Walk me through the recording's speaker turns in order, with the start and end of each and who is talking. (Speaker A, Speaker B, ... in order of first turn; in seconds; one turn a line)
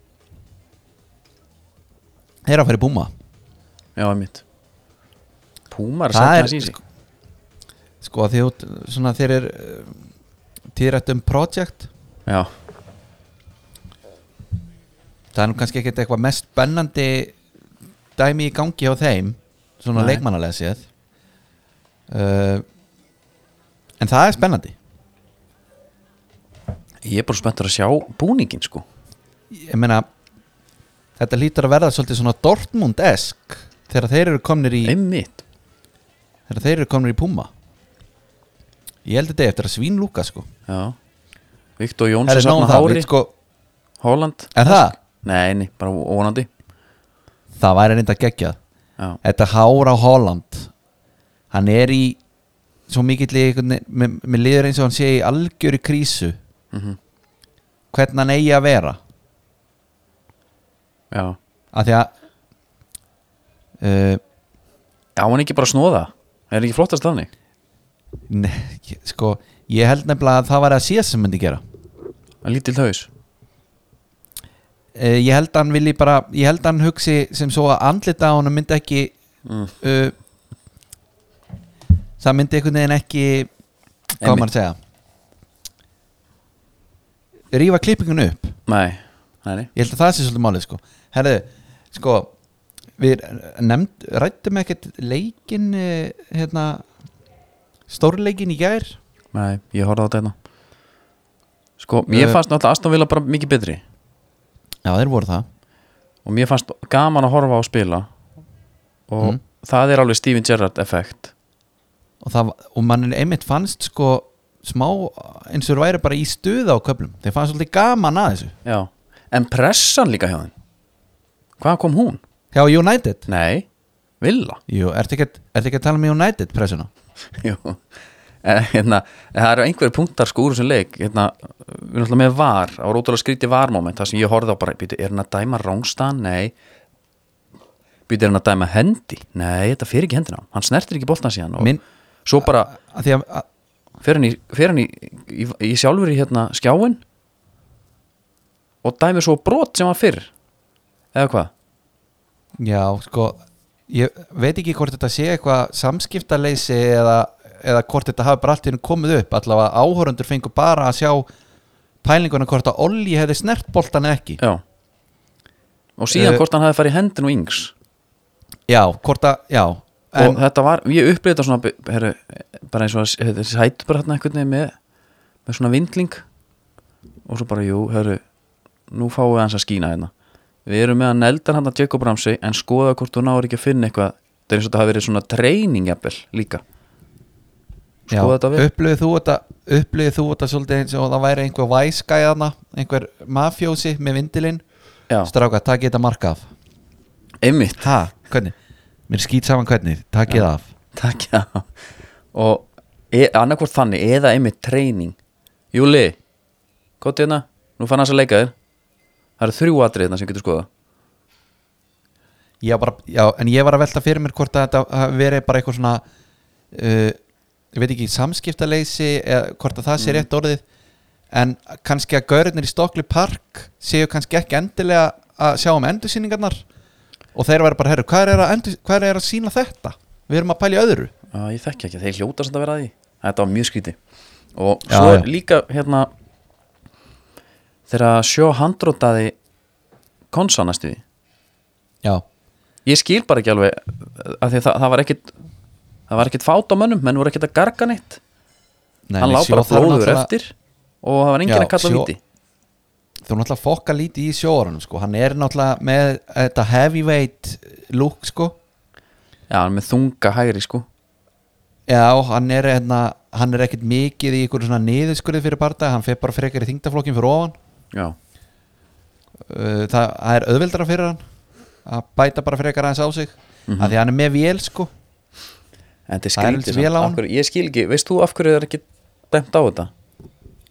Speaker A: 2.5-3.1
Speaker B: 4.0-4.4
Speaker B: 5.7-6.8
Speaker A: 6.1-6.8
Speaker A: 8.0-10.0
Speaker A: 10.7-11.9
Speaker A: 15.3-17.4
Speaker A: 18.2-20.9
Speaker B: 19.9-20.2
Speaker A: 22.1-22.6
Speaker A: 24.0-24.8
Speaker B: 27.0-28.9
Speaker A: 29.5-30.1
Speaker A: 31.2-35.0
Speaker B: 34.8-35.4
Speaker A: 36.5-37.5
Speaker A: 39.0-40.5
Speaker B: 40.7-41.0
Speaker B: 41.8-43.1
Speaker A: 42.3-43.3
Speaker B: 44.0-46.5
Speaker A: 44.5-45.0
Speaker A: 47.6-48.6
Speaker A: 49.2-50.7
Speaker A: 51.5-52.2
Speaker A: 52.9-56.4
Speaker B: 56.7-57.0
Speaker A: 57.9-59.0
Speaker B: 61.1-61.4
Speaker A: 61.7-62.1
Speaker A: 63.8-64.2
Speaker B: 65.2-67.3
Speaker A: 68.3-71.6
Speaker B: 72.4-73.1
Speaker A: 75.0-79.1
Speaker B: 79.5-79.7
Speaker A: 79.8-80.1
Speaker A: 82.2-83.5
Speaker A: 84.2-84.8
Speaker B: 84.2-84.5
Speaker A: 87.5-88.6
Speaker B: 88.7-89.7
Speaker A: 89.8-92.3
Speaker A: 93.0-96.8
Speaker A: 97.9-99.0
Speaker B: 99.3-100.3
Speaker B: 101.8-103.8
Speaker A: 102.1-102.4
Speaker A: 104.8-105.5
Speaker B: 106.2-108.1
Speaker B: 109.1-111.3
Speaker A: 112.2-118.5
Speaker B: 118.7-120.5
Speaker B: 121.6-122.2
Speaker A: 122.5-123.3
Speaker B: 123.3-123.7
Speaker B: 124.2-124.6
Speaker A: 124.7-126.9
Speaker B: 127.3-127.8
Speaker B: 128.4-136.5
Speaker B: 138.1-142.7
Speaker A: 142.4-143.5
Speaker B: 144.0-147.0
Speaker B: 148.8-150.3
Speaker B: 151.1-151.5
Speaker A: 152.6-161.3
Speaker A: 162.0-164.4
Speaker B: 166.0-167.7
Speaker A: 166.1-166.4
Speaker A: 168.7-170.4
Speaker B: 170.2-174.7
Speaker B: 175.5-176.2
Speaker B: 177.3-178.2
Speaker B: 178.9-180.1
Speaker B: 180.7-186.6
Speaker B: 188.1-188.7
Speaker A: 188.1-194.6
Speaker A: 195.3-196.5
Speaker B: 197.4-197.9
Speaker A: 197.8-198.6
Speaker A: 199.1-200.7
Speaker B: 200.9-201.7
Speaker B: 202.3-205.2
Speaker B: 205.7-206.2
Speaker B: 207.0-208.5
Speaker B: 209.4-210.7
Speaker A: 212.6-216.0
Speaker A: 216.7-217.2
Speaker A: 217.7-220.6
Speaker B: 220.0-220.2
Speaker A: 221.3-226.6
Speaker A: 227.3-231.1
Speaker B: 231.3-234.0
Speaker B: 234.6-236.1
Speaker A: 234.9-235.3
Speaker B: 237.9-239.4
Speaker B: 240.3-241.0
Speaker B: 242.9-245.3
Speaker B: 246.1-248.2
Speaker A: 249.1-250.3
Speaker B: 249.2-252.2
Speaker A: 251.5-252.1
Speaker A: 253.2-258.6
Speaker B: 259.5-260.9
Speaker A: 261.9-267.6
Speaker A: 269.5-271.2
Speaker A: 271.9-274.9
Speaker B: 273.7-273.9
Speaker B: 276.1-279.9
Speaker A: 276.4-277.2